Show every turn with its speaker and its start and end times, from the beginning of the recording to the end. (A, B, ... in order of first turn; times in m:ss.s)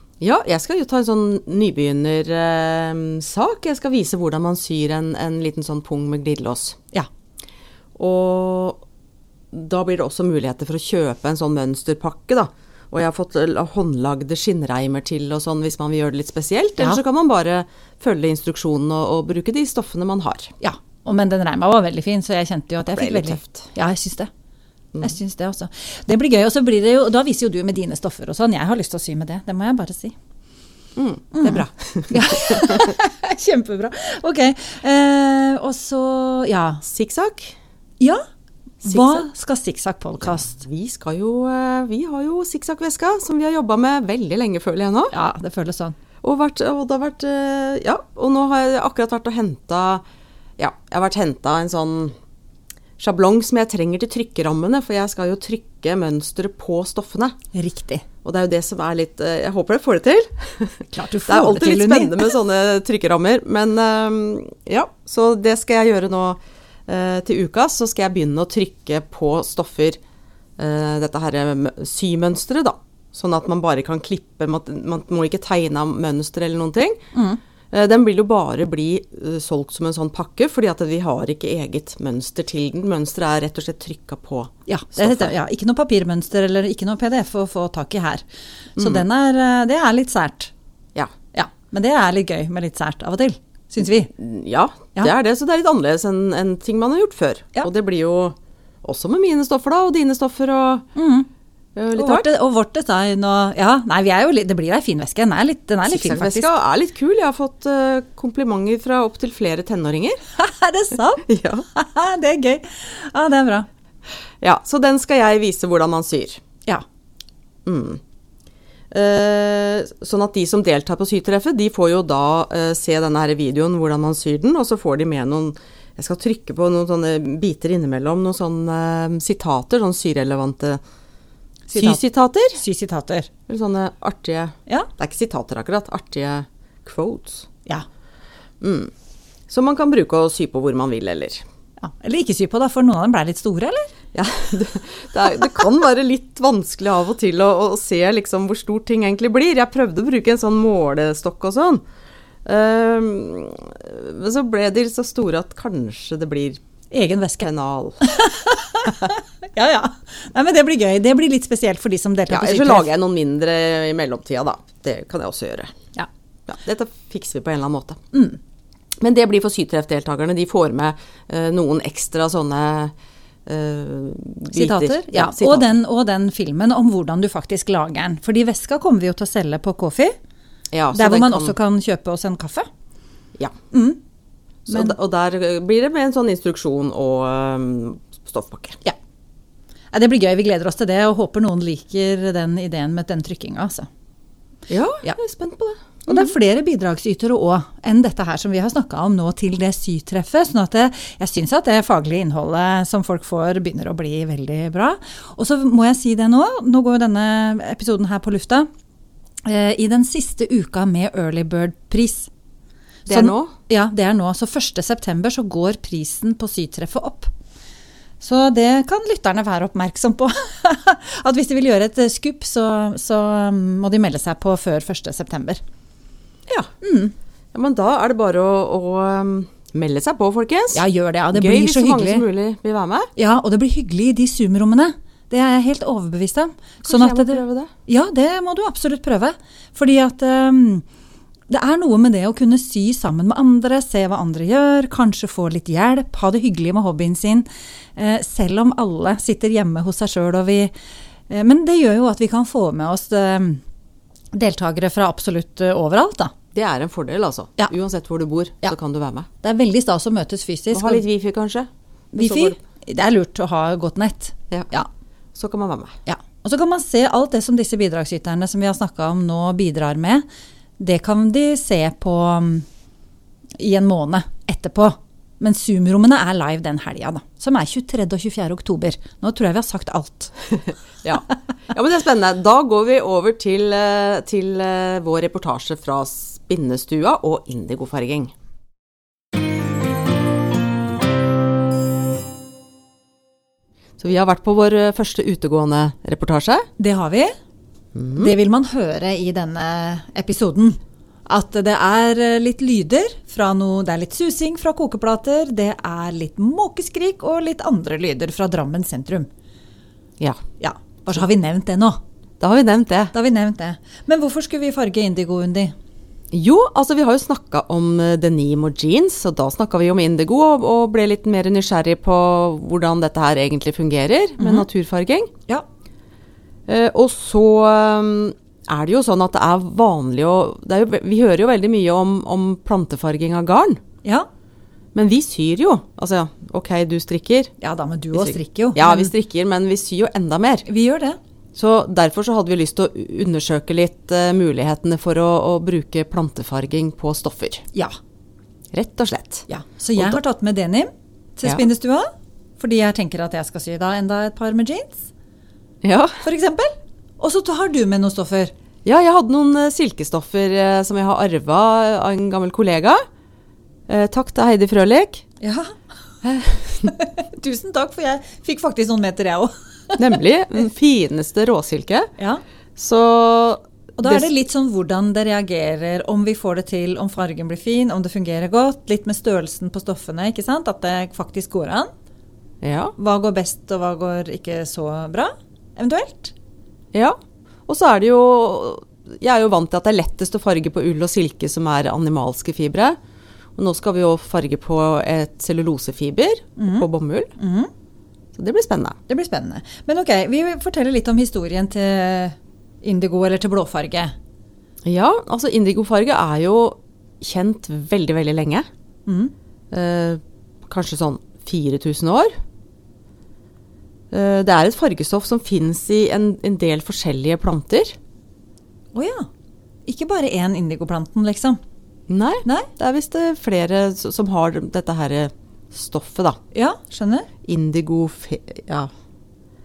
0:00.2-0:06.8 A
0:08.0-0:08.8 A
0:09.5-0:20.5 A
0:20.6-0:24.3 B
0:22.9-0:23.6 A
0:25.0-0:30.1 B
0:31.0-0:32.9 A
0:31.3-0:36.8 B
0:36.8-0:37.6 A
0:38.8-0:39.3 A
0:38.8-0:40.6 B
0:40.2-0:45.1 A
0:45.1-0:46.0 B
0:46.2-0:50.0 A
0:50.6-0:52.1 A
0:53.0-0:57.4 A
0:57.5-0:58.0 B
0:58.2-1:10.0 A
1:00.9-1:02.3 B
1:10.6-1:17.0 A
1:17.1-1:17.4 B
1:17.7-1:25.3 A
1:24.7-1:28.2 B
1:28.8-1:29.0 A
1:28.8-1:30.5 B
1:31.3-1:34.1 B
1:34.1-1:40.8 A
1:40.9-1:41.3 B
1:41.8-1:42.3 A
1:41.9-1:46.5 B
1:45.8-1:50.2 A
1:50.4-1:53.7 B
1:51.2-1:51.6 A
1:54.4-1:56.4 A
1:57.6-1:58.0 A
1:58.9-2:10.8 A
2:11.7-2:12.6 A
2:11.7-2:12.0 B
2:12.5-2:13.3 B
2:13.5-2:17.5 A
2:18.6-2:18.9 A
2:19.5-2:21.4 A
2:21.8-2:23.9 B
2:24.1-2:31.8 A
2:32.4-2:36.6 A
2:36.9-2:37.5 B
2:37.4-2:38.0 A
2:38.0-2:42.9 B
2:42.3-2:45.7 A
2:46.5-2:48.0 A
2:48.1-2:48.4 B
2:49.0-2:52.9 A
2:53.4-2:55.7 A
2:54.5-3:00.2 B
3:00.7-3:01.6 A
3:00.9-3:02.7 B
3:03.7-3:04.0 B
3:04.7-3:08.8 A
3:04.7-3:04.9 B
3:09.9-3:13.9 B
3:14.7-3:16.3 A
3:16.1-3:28.7 B
3:29.4-3:32.3 B
3:33.0-3:33.5 A
3:33.1-3:37.3 B
3:38.2-3:45.6 B
3:46.8-3:47.1 B
3:47.5-3:53.1 A
3:50.7-3:52.2 B
3:53.2-4:00.8 B
3:56.8-3:57.7 A
4:01.5-4:10.7 B
4:11.3-4:13.6 B
4:14.3-4:16.3 B
4:16.5-4:19.3 A
4:19.4-4:21.0 B
4:20.7-4:22.6 A
4:22.1-4:24.9 B
4:25.3-4:26.0 A
4:26.0-4:30.2 B
4:30.8-4:32.7 B
4:33.6-4:40.3 B
4:41.0-4:48.3 A
4:54.0-4:56.7 A
4:56.8-4:57.3 B
4:57.9-4:58.3 A
4:58.2-5:09.3 B
5:10.6-5:12.0 B
5:12.4-5:13.1 A
5:13.1-5:15.7 B
5:16.3-5:25.3 A
5:24.4-5:24.7 B
5:26.7-5:33.8 A
5:34.9-5:37.5 A
5:37.6-5:39.1 B
5:38.1-5:40.6 A
5:40.6-5:41.2 B
5:41.5-5:47.6 A
5:48.7-5:49.4 A
5:49.5-5:55.1 B
5:55.8-5:56.2 A
5:56.2-5:58.5 B
5:58.8-6:03.0 A
6:03.9-6:05.2 A
6:05.4-6:05.7 B
6:06.2-6:06.9 A
6:06.8-6:10.0 B
6:10.0-6:12.1 A
6:12.8-6:14.3 A
6:14.0-6:21.9 B
6:22.6-6:22.9 A
6:23.0-6:26.3 B
6:26.9-6:33.0 A
6:33.6-6:37.3 A
6:36.6-6:36.8 B
6:37.4-6:37.7 B
6:38.3-6:39.0 A
6:39.1-6:44.1 B
6:44.8-6:48.7 A
6:49.0-6:49.3 B
6:49.7-6:52.3 A
6:54.1-6:58.0 A
6:58.9-6:59.3 B
6:59.8-7:01.6 B
7:02.1-7:06.4 A
7:06.5-7:07.3 B
7:07.4-7:08.9 A